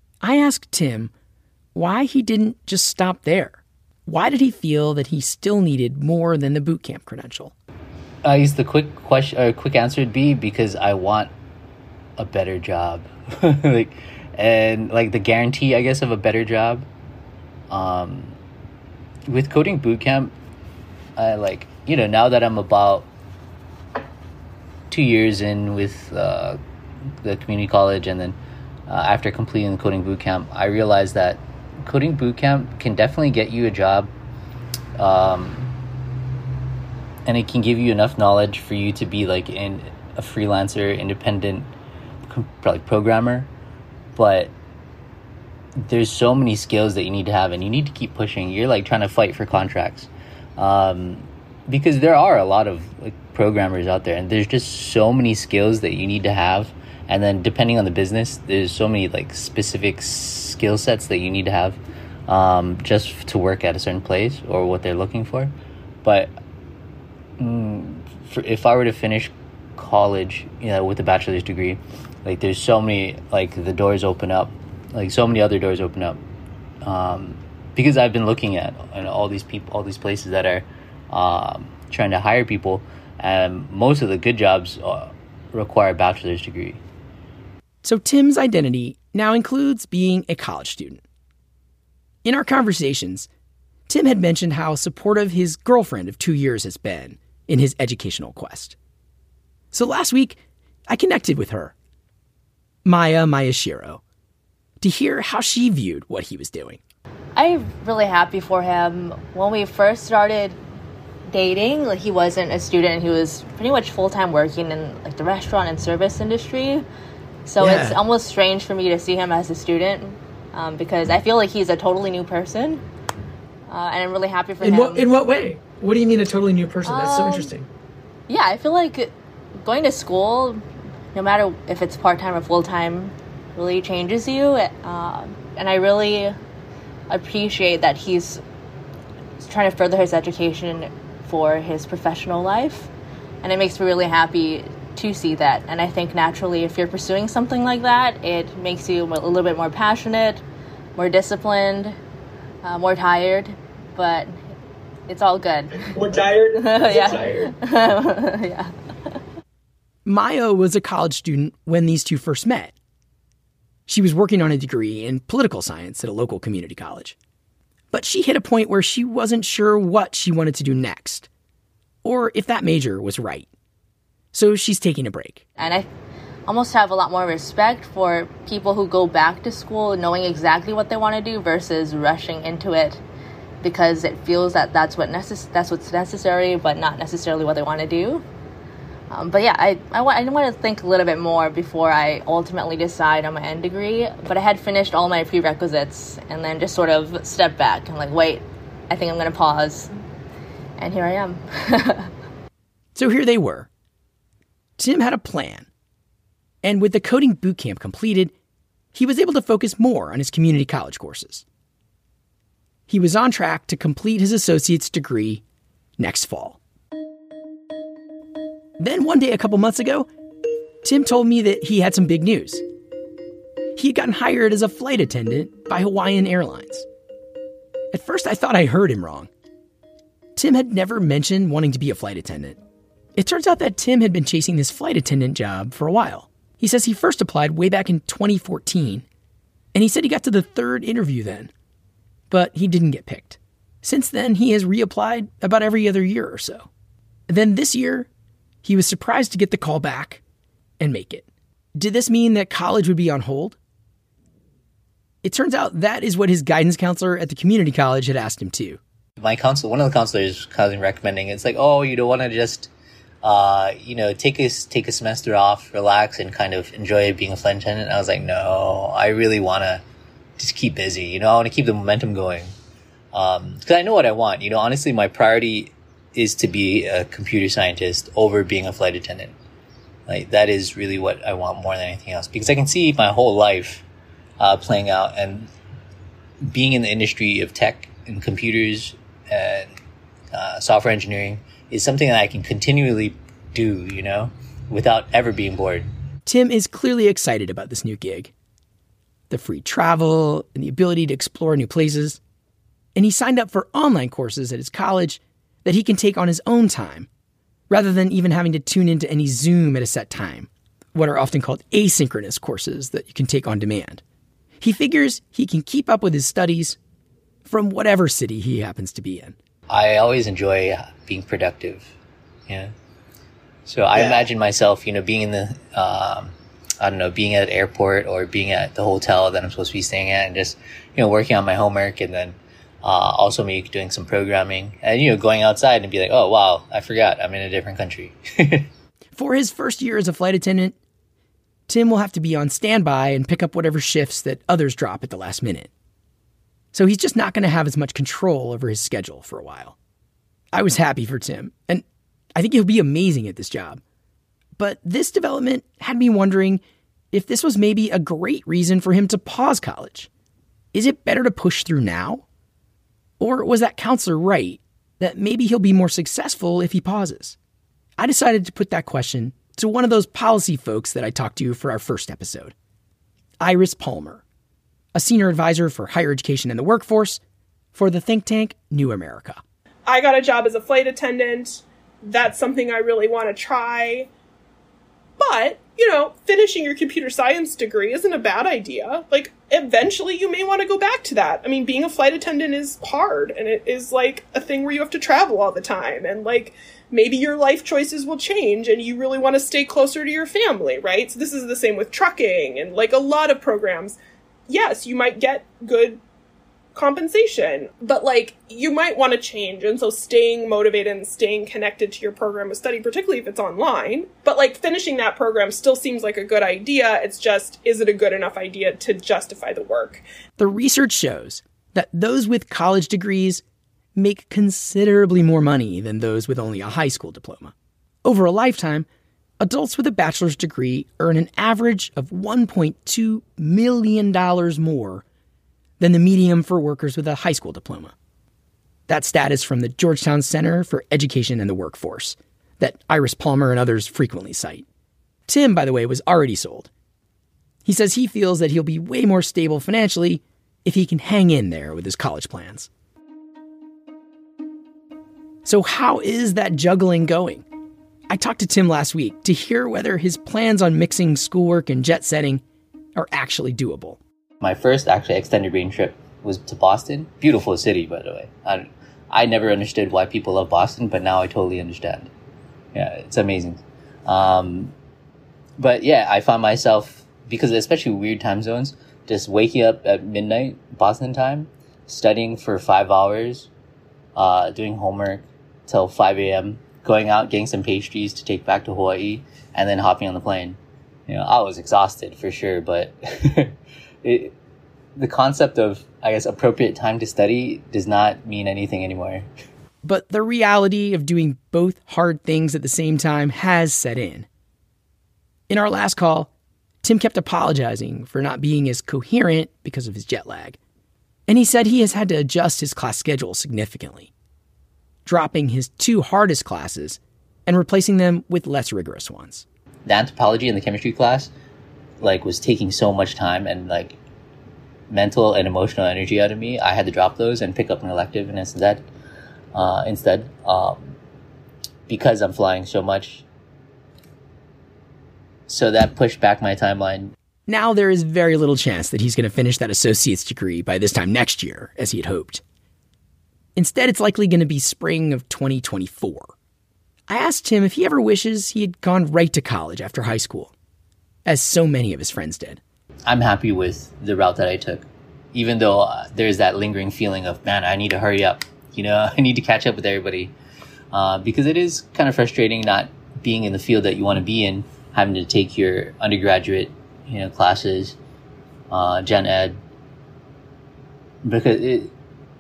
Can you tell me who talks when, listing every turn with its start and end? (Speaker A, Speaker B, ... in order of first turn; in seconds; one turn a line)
Speaker A: 0.2-1.1
Speaker A: 1.7-7.5
Speaker B: 8.2-11.3
Speaker B: 12.2-16.9
Speaker B: 17.7-18.4
Speaker B: 19.3-20.4
Speaker B: 21.2-23.1
Speaker B: 24.9-26.6
Speaker B: 27.2-34.1
Speaker B: 35.0-35.7
Speaker B: 37.2-41.7
Speaker B: 42.3-43.5
Speaker B: 44.1-44.5
Speaker B: 45.8-66.4
Speaker B: 67.4-76.2
Speaker B: 76.8-86.8
Speaker A: 87.8-91.0
Speaker A: 92.2-93.3
Speaker A: 93.9-98.8
Speaker A: 99.7-101.7
Speaker A: 102.8-104.0
Speaker A: 104.8-106.8
Speaker C: 107.4-110.6
Speaker C: 111.3-116.8
Speaker C: 117.5-122.8
Speaker A: 117.6-118.0
Speaker C: 123.7-125.1
Speaker A: 124.6-127.7
Speaker C: 126.8-127.5
Speaker C: 128.3-130.6
Speaker C: 131.1-136.3
Speaker C: 137.1-138.4
Speaker C: 139.4-142.9
Speaker C: 143.4-150.4
Speaker C: 151.0-152.0
Speaker C: 152.6-154.3
Speaker C: 155.1-158.7
Speaker A: 160.1-162.8
Speaker A: 163.9-167.2
Speaker A: 167.9-171.3
Speaker A: 172.0-173.5
Speaker A: 174.3-175.4
Speaker C: 175.6-175.9
Speaker C: 176.5-183.0
Speaker C: 183.6-188.2
Speaker C: 189.1-199.9
Speaker C: 200.8-202.1
Speaker A: 202.9-203.7
Speaker A: 204.8-205.7
Speaker A: 206.6-208.3
Speaker A: 208.9-211.4
Speaker A: 212.9-215.4
Speaker A: 216.0-216.6
Speaker A: 218.8-220.1
Speaker A: 220.8-222.6
Speaker A: 223.8-226.9
Speaker A: 227.9-229.3
Speaker A: 230.4-232.6
Speaker A: 233.2-239.1
Speaker A: 239.7-241.5
Speaker A: 242.3-246.7
Speaker A: 247.3-248.1
Speaker A: 248.6-250.2
Speaker A: 250.8-253.6
Speaker A: 255.2-258.8
Speaker B: 259.2-262.7
Speaker B: 263.2-269.8
Speaker B: 270.4-272.5
Speaker B: 273.1-279.4
Speaker B: 280.1-283.9
Speaker B: 284.4-285.5
Speaker B: 286.4-289.7
Speaker B: 290.3-295.9
Speaker A: 296.3-298.3
Speaker A: 299.3-302.2
Speaker A: 302.9-307.1
Speaker A: 307.7-314.0
Speaker A: 314.6-316.8
Speaker A: 317.5-319.4
Speaker B: 319.7-321.9
Speaker B: 322.5-322.7
Speaker B: 323.7-338.7
Speaker A: 339.2-340.8
Speaker A: 341.7-345.7
Speaker A: 346.7-349.8
Speaker A: 350.5-351.8
Speaker A: 352.4-353.8
Speaker A: 354.6-356.6
Speaker A: 357.1-360.1
Speaker A: 360.7-362.2
Speaker A: 363.2-367.4
Speaker A: 368.0-372.5
Speaker A: 373.4-374.2
Speaker A: 374.9-377.2
Speaker A: 377.7-379.4
Speaker D: 379.9-384.1
Speaker D: 385.2-404.0
Speaker D: 404.5-406.0
Speaker D: 406.7-420.0
Speaker A: 420.4-423.4
Speaker A: 424.0-427.5
Speaker A: 428.1-428.9
Speaker A: 429.4-435.0
Speaker A: 435.8-437.9
Speaker A: 438.9-444.6
Speaker A: 445.3-446.7
Speaker A: 447.6-452.7
Speaker A: 455.4-457.4
Speaker A: 458.1-462.4
Speaker A: 463.0-464.0
Speaker B: 464.4-472.1
Speaker B: 472.7-474.8
Speaker B: 475.6-483.5
Speaker B: 484.1-494.4
Speaker B: 495.0-499.3
Speaker A: 499.9-504.3
Speaker A: 505.5-506.3
Speaker A: 506.8-510.6
Speaker A: 511.3-514.1
Speaker A: 515.0-519.5
Speaker B: 519.9-521.3
Speaker B: 522.0-524.0
Speaker B: 524.9-528.9
Speaker B: 529.5-531.0
Speaker B: 531.9-533.2
Speaker B: 535.5-537.1
Speaker A: 537.5-542.4
Speaker A: 543.6-546.3
Speaker A: 547.1-550.5
Speaker A: 551.3-552.6
Speaker B: 553.1-560.3
Speaker B: 560.9-568.0
Speaker B: 568.7-569.6
Speaker B: 571.2-571.9